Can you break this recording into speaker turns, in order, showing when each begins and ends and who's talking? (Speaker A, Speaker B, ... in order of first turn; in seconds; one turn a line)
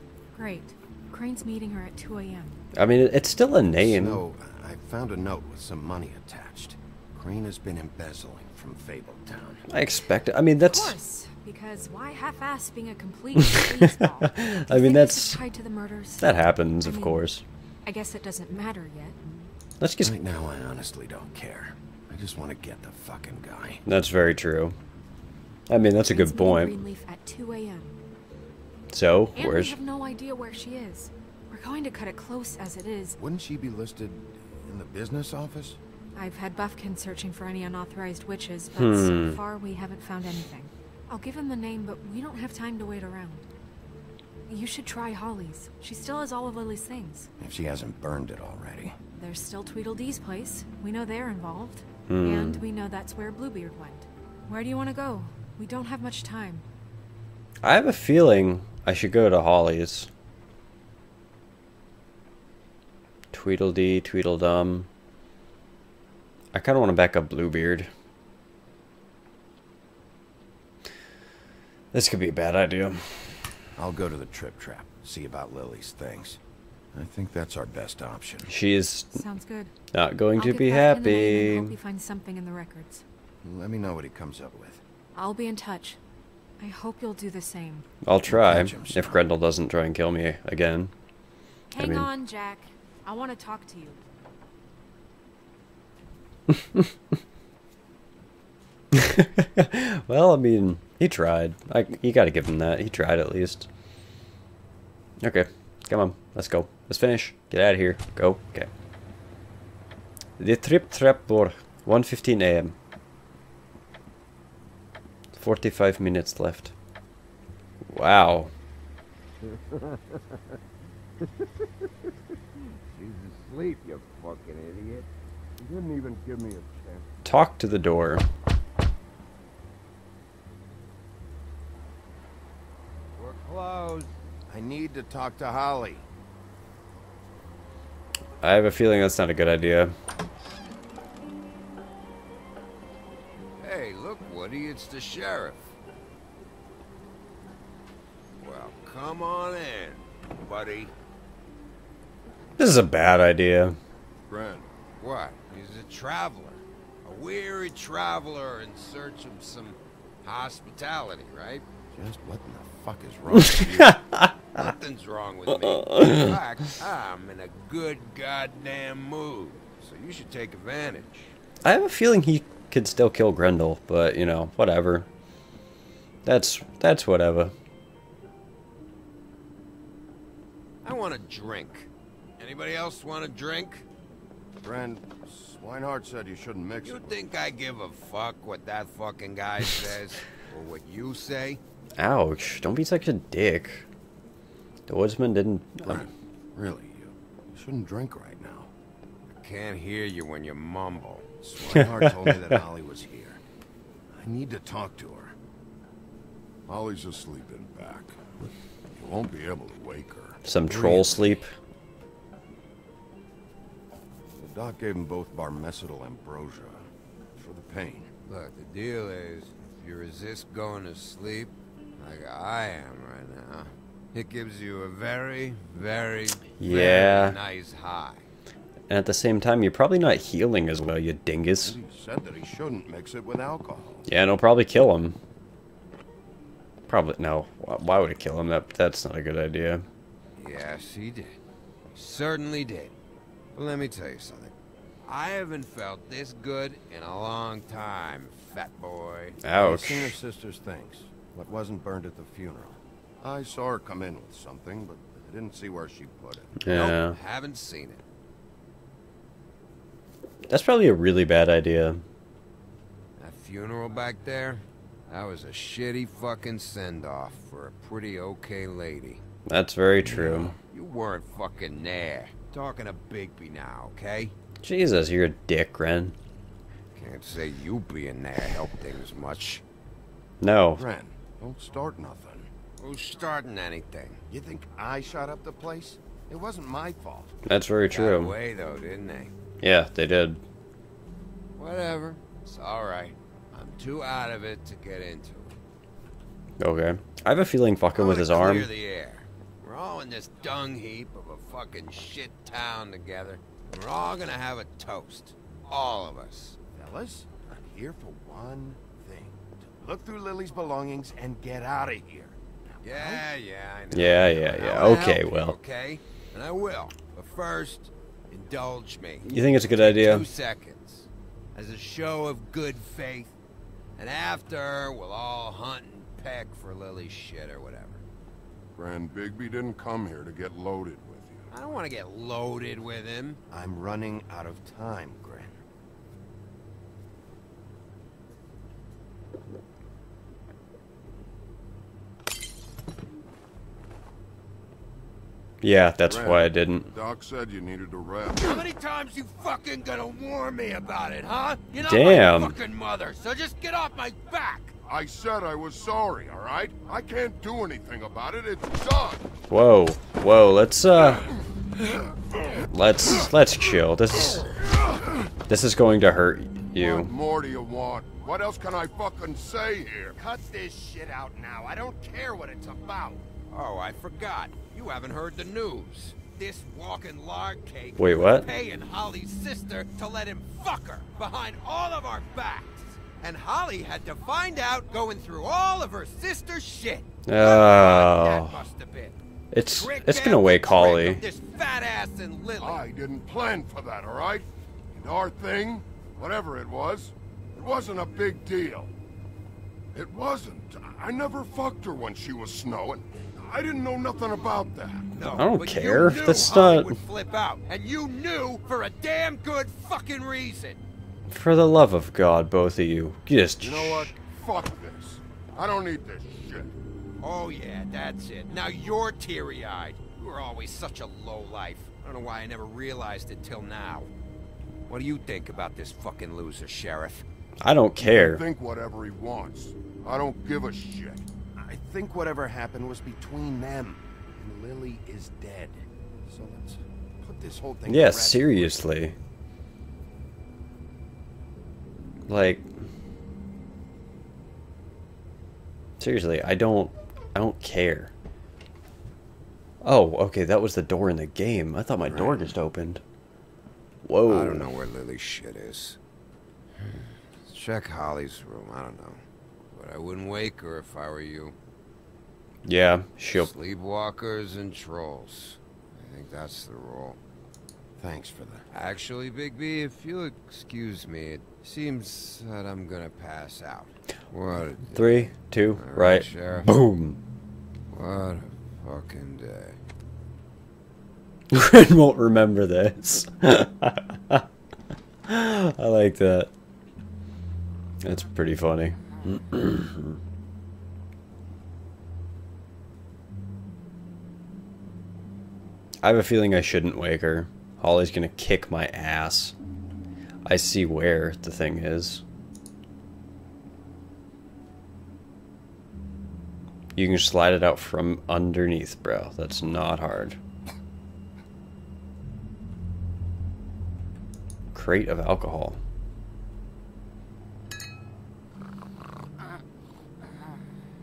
Speaker A: 0.3-2.5
Speaker B: 2.7-4.2
Speaker C: 3.8-9.7
Speaker B: 9.7-11.0
Speaker A: 10.6-17.2
Speaker B: 14.2-15.4
Speaker B: 16.2-17.4
Speaker A: 17.8-19.2
Speaker B: 19.8-20.2
Speaker C: 20.0-23.8
Speaker B: 23.8-24.7
Speaker B: 25.7-26.8
Speaker A: 26.0-28.0
Speaker B: 28.9-29.8
Speaker A: 29.3-33.2
Speaker C: 33.2-35.8
Speaker A: 36.1-43.4
Speaker B: 38.7-39.4
Speaker A: 44.5-47.3
Speaker C: 47.4-49.0
Speaker A: 49.1-56.6
Speaker B: 52.1-52.6
Speaker B: 57.6-60.1
Speaker B: 63.3-64.9
Speaker B: 66.5-67.9
Speaker B: 71.9-73.3
Speaker C: 73.8-76.4
Speaker C: 76.9-78.5
Speaker B: 78.5-79.2
Speaker A: 79.1-79.7
Speaker B: 79.9-81.8
Speaker A: 80.3-83.0
Speaker C: 83.4-84.8
Speaker A: 85.1-86.0
Speaker A: 86.6-87.9
Speaker B: 88.0-90.9
Speaker C: 88.3-89.2
Speaker A: 91.7-94.0
Speaker B: 91.7-92.1
Speaker B: 96.5-96.9
Speaker B: 98.9-103.7
Speaker B: 105.2-108.7
Speaker B: 110.4-112.7
Speaker B: 115.3-116.7
Speaker B: 117.8-118.5
Speaker D: 119.5-120.3
Speaker D: 121.2-121.5
Speaker D: 122.5-125.1
Speaker E: 125.6-126.8
Speaker B: 127.2-128.2
Speaker D: 133.1-134.1
Speaker C: 134.5-136.0
Speaker B: 138.4-139.9
Speaker D: 143.6-145.7
Speaker D: 148.4-150.9
Speaker B: 152.6-153.8
Speaker E: 154.3-154.7
Speaker D: 155.0-161.6
Speaker C: 161.9-164.0
Speaker B: 163.4-164.7
Speaker D: 164.6-171.3
Speaker B: 165.7-166.3
Speaker B: 171.6-175.1
Speaker B: 176.2-177.5
Speaker D: 180.8-183.8
Speaker C: 184.6-187.2
Speaker D: 186.8-191.6
Speaker B: 192.0-193.8
Speaker B: 194.9-196.1
Speaker C: 195.8-198.7
Speaker D: 199.3-201.3
Speaker C: 201.4-203.4
Speaker C: 204.1-205.3
Speaker E: 206.7-208.2
Speaker E: 209.0-210.4
Speaker B: 210.4-211.5
Speaker C: 210.7-211.2
Speaker C: 214.4-218.1
Speaker D: 218.2-228.3
Speaker B: 226.6-227.3
Speaker B: 228.9-231.8
Speaker C: 231.6-234.1
Speaker B: 234.1-235.2
Speaker B: 236.9-239.8
Speaker D: 240.4-241.4
Speaker D: 241.9-242.9
Speaker D: 243.5-244.5
Speaker D: 245.1-249.4
Speaker B: 249.4-250.2
Speaker C: 249.5-256.6
Speaker B: 256.6-257.2
Speaker D: 256.7-258.0
Speaker B: 260.5-262.0
Speaker D: 263.2-269.2
Speaker B: 269.5-270.5
Speaker C: 270.1-270.5
Speaker D: 270.6-274.3
Speaker B: 274.6-276.1
Speaker D: 276.9-279.6
Speaker B: 280.4-280.8
Speaker C: 280.8-282.5
Speaker D: 282.8-284.2
Speaker C: 284.3-287.3
Speaker B: 287.4-288.3
Speaker D: 287.9-289.3
Speaker B: 289.6-290.4
Speaker D: 291.6-295.6
Speaker B: 296.6-298.7
Speaker D: 297.9-306.6
Speaker C: 306.7-313.2
Speaker D: 312.8-323.4
Speaker B: 313.9-315.6
Speaker B: 319.2-320.2
Speaker D: 323.9-328.0
Speaker E: 328.7-331.5
Speaker D: 331.5-333.4
Speaker C: 333.5-335.6
Speaker B: 345.6-346.9
Speaker E: 346.1-348.6
Speaker D: 348.4-354.7
Speaker B: 351.9-352.5
Speaker E: 354.9-359.2
Speaker B: 359.5-361.3
Speaker B: 362.7-364.6
Speaker B: 365.5-367.1
Speaker E: 366.8-370.1
Speaker C: 370.1-373.2
Speaker D: 373.5-392.8
Speaker B: 378.0-378.4
Speaker B: 387.3-388.6
Speaker B: 389.5-391.2
Speaker E: 392.6-398.9
Speaker E: 399.9-405.1
Speaker D: 405.1-410.8
Speaker B: 405.3-406.9
Speaker B: 411.3-414.1
Speaker E: 413.6-416.7
Speaker D: 417.2-424.1
Speaker D: 424.9-427.2
Speaker B: 427.6-428.4
Speaker E: 428.0-431.3
Speaker C: 431.6-438.8
Speaker B: 437.9-439.1
Speaker B: 442.3-442.6
Speaker B: 446.0-448.1
Speaker B: 449.8-453.0
Speaker C: 452.1-452.5
Speaker B: 454.0-454.7
Speaker D: 454.2-456.0
Speaker D: 456.8-459.2
Speaker D: 459.7-461.6
Speaker B: 462.6-463.5
Speaker D: 463.3-467.2
Speaker C: 468.0-468.6
Speaker D: 468.7-476.7
Speaker B: 474.9-477.2
Speaker D: 477.9-479.8
Speaker B: 481.5-484.4
Speaker B: 485.3-486.5
Speaker B: 488.0-490.2
Speaker B: 496.0-499.5
Speaker B: 500.4-502.2
Speaker B: 506.9-510.4
Speaker B: 514.7-515.8